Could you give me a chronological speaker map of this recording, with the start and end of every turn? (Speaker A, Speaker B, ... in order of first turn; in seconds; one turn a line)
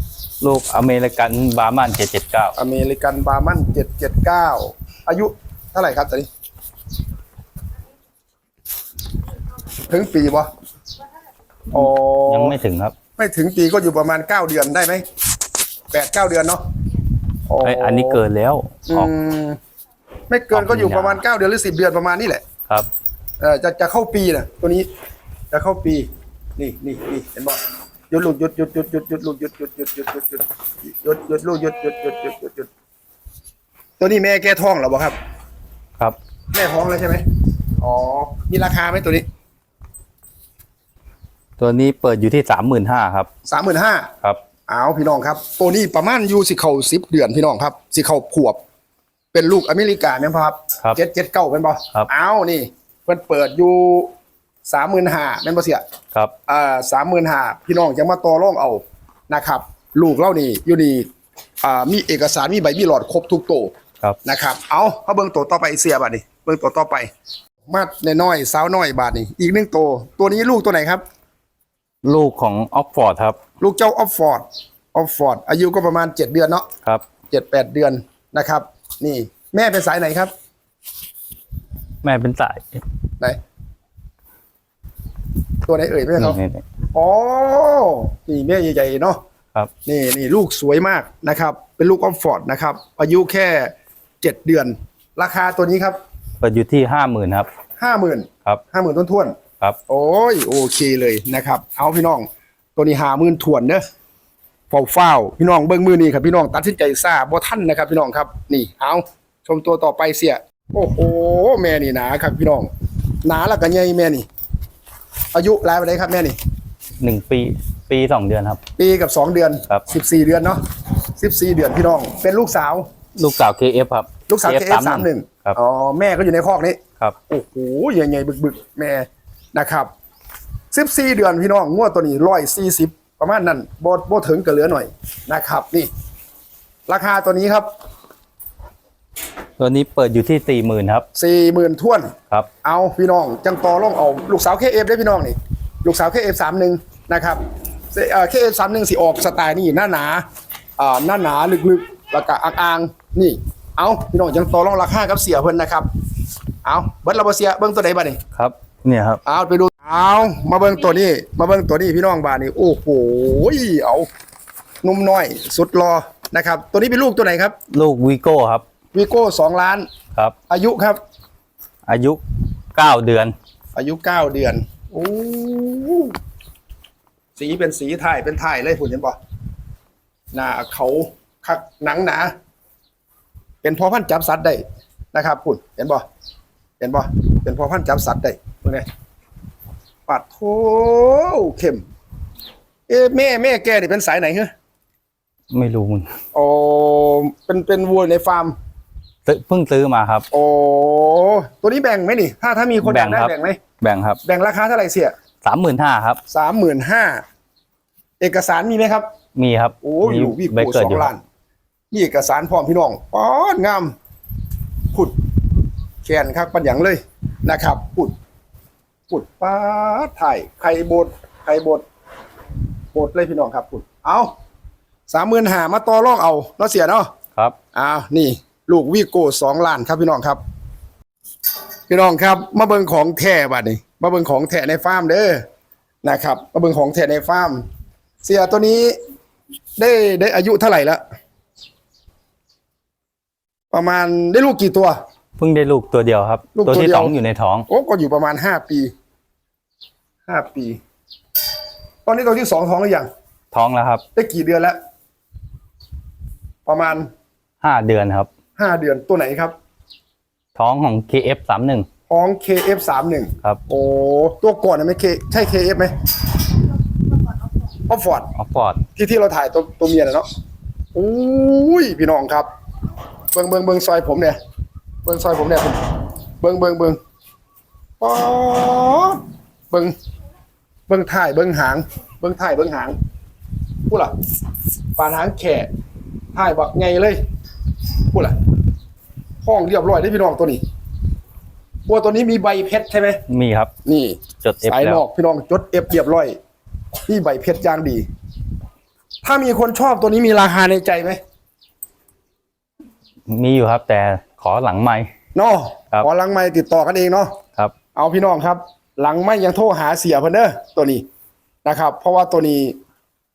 Speaker A: 0.4-2.5
Speaker B: 2.6-6.3
Speaker B: 9.9-10.5
Speaker B: 11.7-12.6
Speaker A: 12.3-12.9
Speaker B: 13.2-15.0
Speaker B: 15.9-16.6
Speaker B: 17.5-18.2
Speaker A: 17.6-19.1
Speaker B: 18.9-19.6
Speaker B: 20.3-22.4
Speaker A: 20.5-21.2
Speaker B: 23.4-24.9
Speaker B: 25.5-32.7
Speaker B: 34.0-35.2
Speaker B: 36.5-37.2
Speaker B: 37.8-39.3
Speaker A: 41.6-43.3
Speaker B: 43.5-44.1
Speaker B: 44.7-48.6
Speaker B: 49.3-54.1
Speaker B: 54.7-55.8
Speaker B: 56.5-61.1
Speaker B: 61.6-63.7
Speaker B: 64.2-67.1
Speaker B: 67.7-71.0
Speaker A: 72.0-73.4
Speaker B: 73.6-76.7
Speaker B: 77.3-80.3
Speaker A: 82.0-82.8
Speaker B: 85.7-86.4
Speaker A: 86.2-86.6
Speaker B: 86.9-89.2
Speaker B: 89.9-96.0
Speaker A: 96.4-97.5
Speaker B: 97.8-99.3
Speaker B: 99.9-103.8
Speaker B: 104.7-112.7
Speaker B: 113.2-114.3
Speaker B: 115.3-116.4
Speaker A: 117.0-118.6
Speaker B: 118.8-120.6
Speaker B: 121.2-122.9
Speaker A: 123.2-125.6
Speaker B: 124.3-129.9
Speaker B: 130.7-135.9
Speaker B: 136.9-137.7
Speaker A: 139.6-141.1
Speaker B: 141.2-142.1
Speaker B: 142.6-147.4
Speaker B: 147.9-150.2
Speaker B: 150.8-155.9
Speaker B: 156.7-158.2
Speaker A: 158.3-159.2
Speaker B: 159.3-164.1
Speaker B: 164.8-167.6
Speaker A: 167.7-168.6
Speaker B: 168.9-169.9
Speaker B: 170.5-171.0
Speaker A: 171.9-172.2
Speaker A: 172.7-173.3
Speaker B: 173.8-176.2
Speaker B: 177.4-179.2
Speaker B: 180.3-182.3
Speaker B: 183.6-186.0
Speaker B: 186.8-188.9
Speaker B: 190.1-191.8
Speaker B: 192.9-194.5
Speaker A: 195.5-196.1
Speaker B: 196.3-198.6
Speaker A: 199.3-200.3
Speaker B: 200.3-203.6
Speaker A: 202.8-204.2
Speaker B: 204.2-205.1
Speaker A: 205.4-206.2
Speaker B: 206.3-207.2
Speaker B: 208.2-209.1
Speaker A: 209.3-211.1
Speaker B: 209.8-211.2
Speaker B: 211.9-213.9
Speaker B: 216.0-218.1
Speaker B: 219.1-221.8
Speaker B: 222.9-224.3
Speaker B: 225.1-227.1
Speaker B: 227.7-230.4
Speaker B: 231.9-235.4
Speaker B: 236.0-237.6
Speaker B: 238.2-239.0
Speaker B: 239.8-241.0
Speaker B: 243.7-245.0
Speaker A: 245.4-247.7
Speaker B: 246.6-247.1
Speaker B: 247.7-248.9
Speaker B: 250.3-250.8
Speaker B: 252.1-253.1
Speaker A: 253.5-254.0
Speaker B: 254.2-254.8
Speaker B: 256.7-257.1
Speaker A: 257.6-258.3
Speaker B: 258.6-259.5
Speaker A: 260.6-261.9
Speaker B: 262.1-265.9
Speaker B: 267.9-268.3
Speaker A: 268.4-268.8
Speaker B: 269.0-270.3
Speaker B: 270.9-272.5
Speaker B: 273.3-274.4
Speaker B: 275.1-275.9
Speaker B: 276.4-277.0
Speaker B: 278.0-279.2
Speaker B: 280.9-283.0
Speaker B: 285.0-285.7
Speaker B: 286.3-287.2
Speaker B: 289.4-290.6
Speaker B: 291.9-293.2
Speaker A: 293.3-293.7
Speaker B: 293.9-296.4
Speaker A: 294.4-295.0
Speaker B: 297.1-298.1
Speaker B: 299.2-301.2
Speaker A: 303.3-305.1
Speaker B: 305.4-307.4
Speaker B: 307.9-311.0
Speaker B: 311.6-312.8